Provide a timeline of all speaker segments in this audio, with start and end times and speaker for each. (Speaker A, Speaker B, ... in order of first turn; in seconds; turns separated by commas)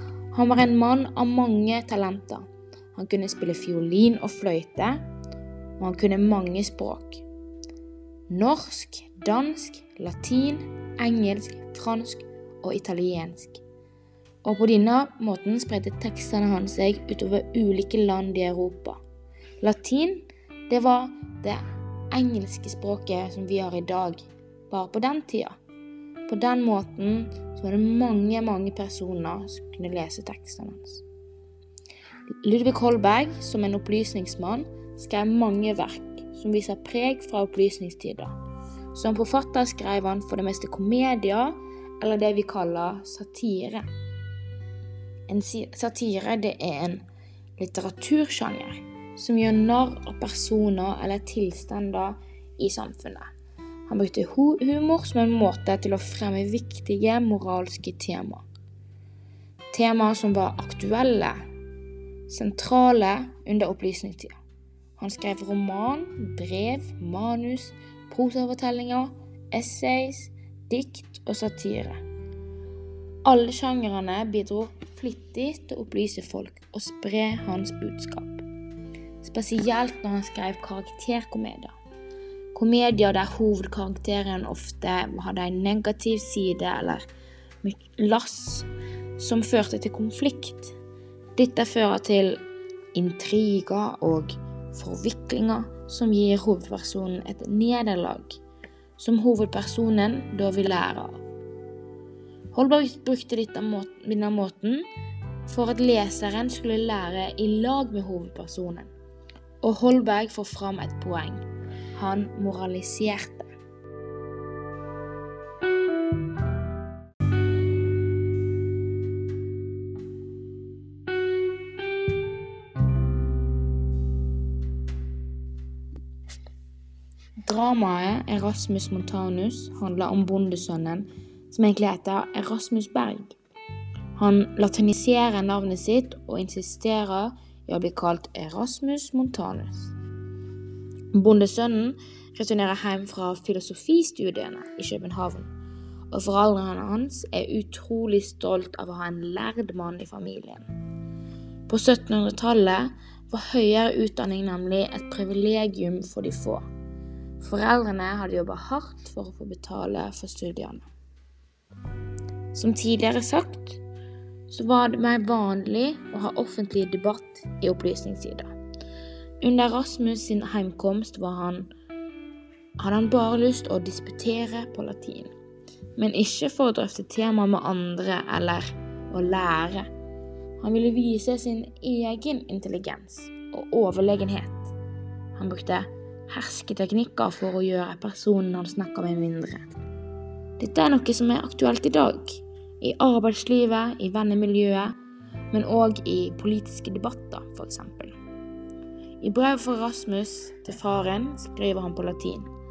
Speaker A: 0.3-5.1, Speaker A: 5.8-7.2, Speaker A: 8.3-13.6, Speaker A: 14.4-19.0, Speaker A: 19.6-25.6, Speaker A: 26.3-31.0, Speaker A: 32.4-38.4, Speaker A: 38.9-43.9, Speaker A: 45.3-47.0, Speaker A: 47.6-53.3, Speaker A: 53.9-58.4, Speaker A: 59.7-61.4, Speaker A: 62.3-64.3, Speaker A: 65.0-72.0, Speaker A: 73.2-78.4, Speaker A: 79.2-81.7, Speaker A: 82.5-87.1, Speaker A: 87.6-88.7, Speaker A: 89.2-90.8, Speaker A: 91.4-98.4, Speaker A: 99.0-101.2, Speaker A: 102.5-104.9, Speaker A: 105.5-108.9, Speaker A: 109.6-113.5, Speaker A: 127.4-133.3, Speaker A: 134.2-139.9, Speaker A: 141.1-145.5, Speaker A: 146.1-150.7, Speaker A: 151.7-156.7, Speaker A: 157.4-160.9, Speaker A: 162.5-163.8, Speaker A: 164.5-168.6, Speaker A: 169.4-171.7, Speaker A: 172.8-175.3, Speaker A: 176.0-179.9, Speaker A: 180.6-184.7, Speaker A: 185.3-189.8, Speaker A: 190.6-195.0, Speaker A: 195.5-198.2, Speaker A: 199.2-202.5